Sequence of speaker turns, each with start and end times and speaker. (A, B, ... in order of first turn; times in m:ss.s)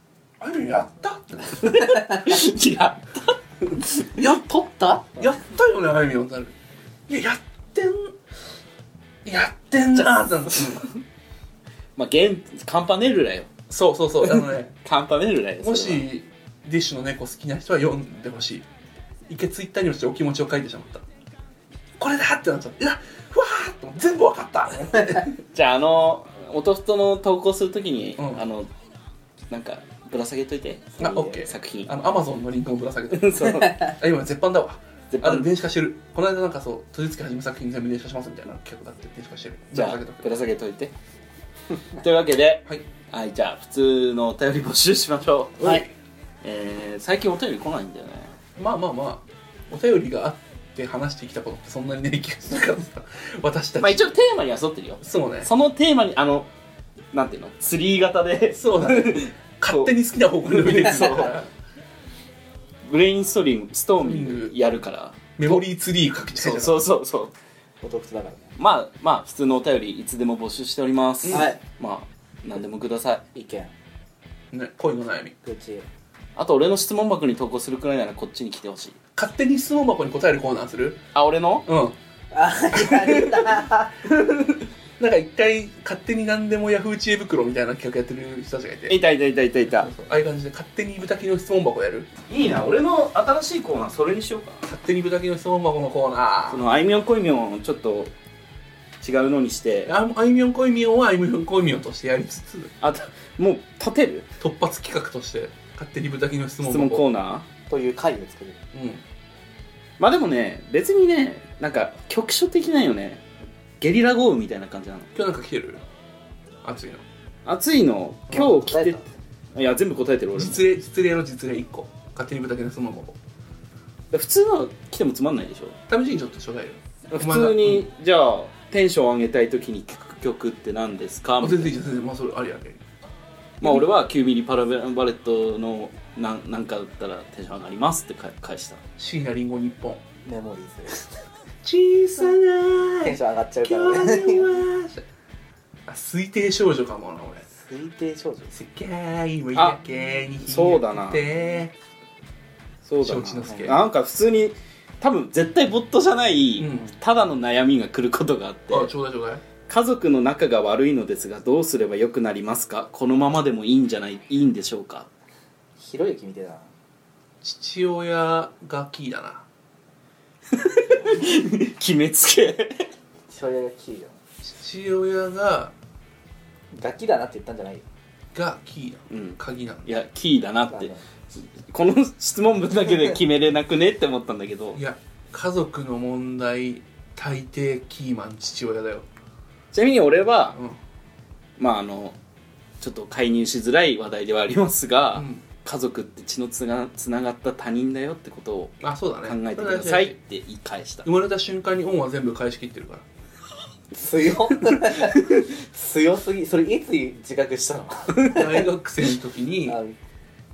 0:00.4-0:01.9 A
0:01.6-0:04.0 B
0:01.8-0:02.2 C
0:04.1-0:05.3 C
0:05.2-0:06.5 A
0:07.1-0:08.1 A
0:09.2-0:10.9 A
0:12.0-0:13.5 B
0:13.7-0:14.7 A
0:14.4-0:16.1 B
0:15.6-0:18.6 A
0:19.3-0:21.0 A
0:22.0-0:25.4 A
0:25.4-0:28.7 B
0:28.2-0:28.4 A
0:29.5-0:31.9 B
0:31.0-0:40.3 A
0:31.0-0:31.4 C
0:33.1-0:33.9 B
0:35.1-0:35.5 B
0:39.7-0:40.9 B
0:42.0-0:45.8 B
0:46.4-0:48.4 B
0:48.6-0:54.1 A
0:53.8-0:56.5 B
0:55.0-0:55.5 A
0:57.1-0:59.9 B
0:58.6-1:01.5 A
1:00.4-1:01.4 B
1:02.8-1:05.6 B
1:04.0-1:04.5 A
1:05.4-1:06.8 A
1:06.3-1:07.3 B
1:07.8-1:08.5 C
1:08.6-1:13.2 B
1:11.2-1:11.5 A
1:11.3-1:11.6 C
1:13.3-1:13.7 C
1:14.5-1:15.3 A
1:15.4-1:15.9 C
1:16.4-1:19.0 B
1:19.2-1:21.1 A
1:21.1-1:21.7 B
1:21.7-1:22.0 A
1:22.3-1:23.9 C
1:24.1-1:24.6 B
1:25.0-1:29.0 A
1:28.9-1:29.9 B
1:29.7-1:32.1 A
1:32.3-1:34.6 B
1:34.6-1:36.6 A
1:36.5-1:38.1 B
1:39.0-1:39.9 B
1:39.9-1:42.7 A
1:42.8-1:44.3 B
1:44.4-1:47.0 A
1:46.6-1:47.5 B
1:47.7-1:48.6 C
1:48.7-1:49.0 A
1:50.0-1:53.2 B
1:53.8-1:55.1 B
1:55.2-1:55.8 A
1:56.6-1:57.0 A
1:57.4-1:59.0 B
1:58.3-1:59.1 C
1:59.5-2:00.6 B
2:00.4-2:03.2 A
2:04.1-2:05.8 B
2:05.9-2:07.8 A
2:07.1-2:11.8 B
2:11.4-2:12.8 A
2:13.6-2:18.8 B
2:19.0-2:20.0 A
2:20.2-2:21.2 C
2:21.6-2:25.0 A
2:23.0-2:24.6 C
2:25.9-2:27.4 A
2:27.5-2:28.5 C
2:28.5-2:31.7 A
2:30.4-2:31.3 B
2:32.8-2:38.9 B
2:33.0-2:33.8 A
2:33.4-2:33.7 C
2:36.6-2:36.9 A
2:38.7-2:39.4 A
2:39.7-2:45.1 B
2:45.8-2:46.7 C
2:47.4-2:49.4 A
2:50.6-2:52.9 B
2:53.3-2:54.2 C
2:54.4-2:55.7 A
2:56.8-2:57.8 C
2:58.3-2:59.9 A
2:59.1-3:04.8 B
3:00.7-3:01.0 C
3:04.8-3:09.1 A
3:09.7-3:10.6 B
3:11.6-3:12.2 B
3:12.8-3:21.1 B
3:15.2-3:15.4 A
3:18.8-3:20.2 A
3:21.0-3:23.0 A
3:23.9-3:28.6 C
3:28.2-3:29.8 A
3:29.7-3:30.0 C